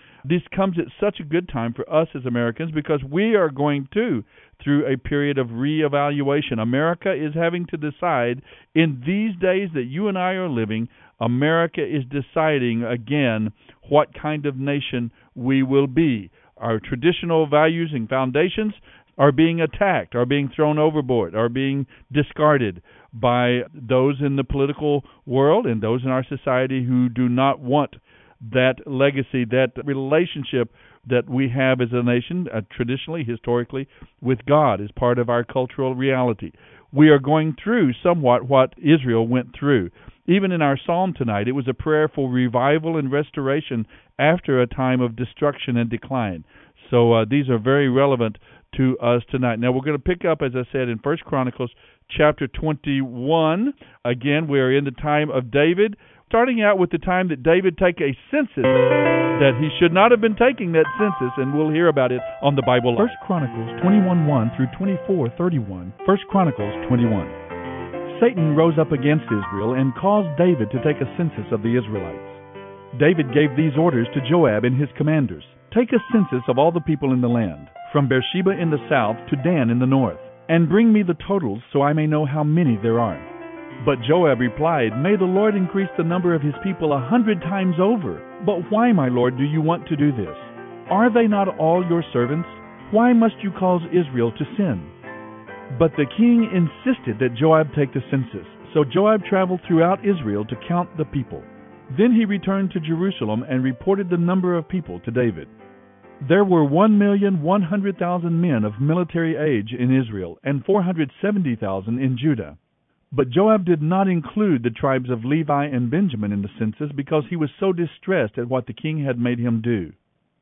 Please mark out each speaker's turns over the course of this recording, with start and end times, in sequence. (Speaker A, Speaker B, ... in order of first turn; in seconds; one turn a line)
Speaker A: 0.2-63.2
Speaker B: 63.1-66.6
Speaker A: 65.7-67.3
Speaker B: 68.1-72.3
Speaker A: 68.1-69.5
Speaker A: 72.0-72.4
Speaker B: 72.9-83.3
Speaker A: 76.8-77.9
Speaker B: 83.8-94.9
Speaker A: 84.3-85.0
Speaker A: 91.8-92.8
Speaker B: 95.7-105.5
Speaker A: 101.9-105.5
Speaker B: 106.2-112.5
Speaker A: 109.3-112.5
Speaker B: 113.1-119.9
Speaker A: 114.6-115.2
Speaker A: 118.8-119.5